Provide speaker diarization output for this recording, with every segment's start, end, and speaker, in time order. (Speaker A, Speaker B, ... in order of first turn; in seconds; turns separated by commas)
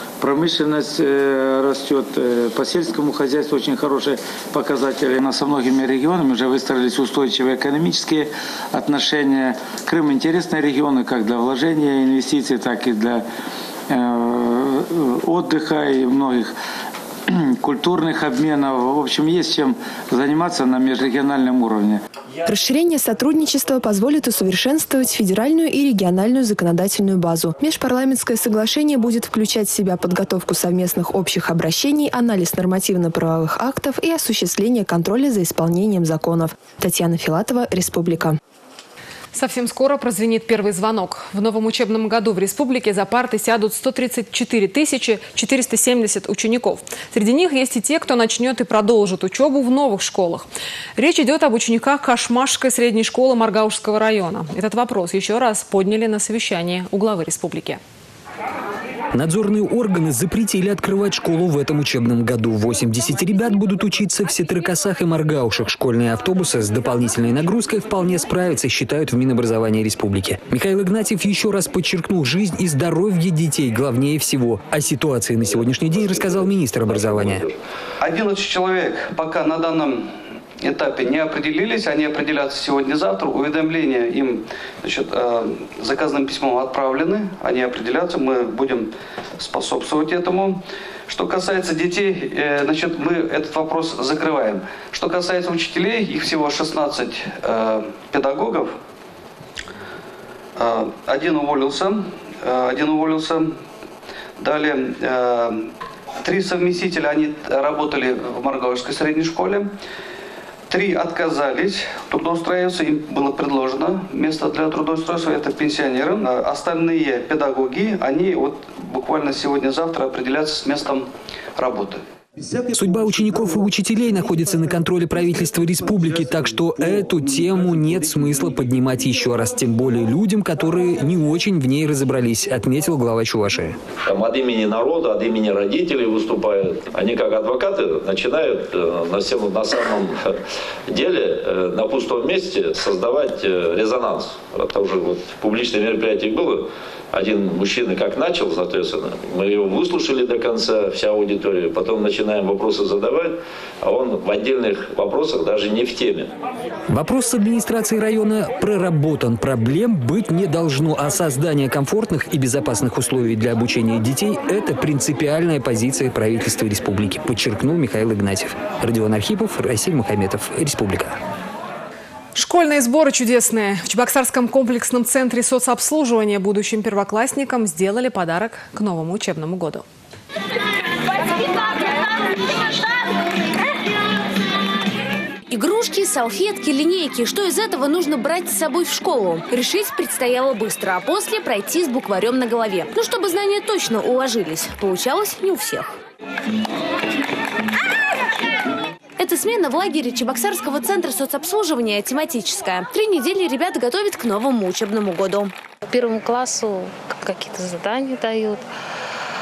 Speaker A: 0.2-13.2, Speaker A: 13.9-16.5, Speaker A: 17.6-22.0, Speaker B: 22.4-38.4, Speaker C: 39.3-57.8, Speaker D: 59.1-77.4, Speaker E: 78.0-80.0, Speaker E: 80.6-88.9, Speaker E: 89.4-90.5, Speaker E: 91.1-98.7, Speaker E: 100.6-103.5, Speaker E: 104.4-105.5, Speaker E: 106.2-109.7, Speaker E: 110.7-121.0, Speaker E: 121.6-122.0, Speaker D: 122.7-133.8, Speaker F: 134.1-140.2, Speaker F: 140.9-156.3, Speaker D: 156.9-171.1, Speaker C: 172.3-179.8, Speaker G: 185.5-195.8, Speaker G: 199.2-205.4, Speaker H: 205.8-208.7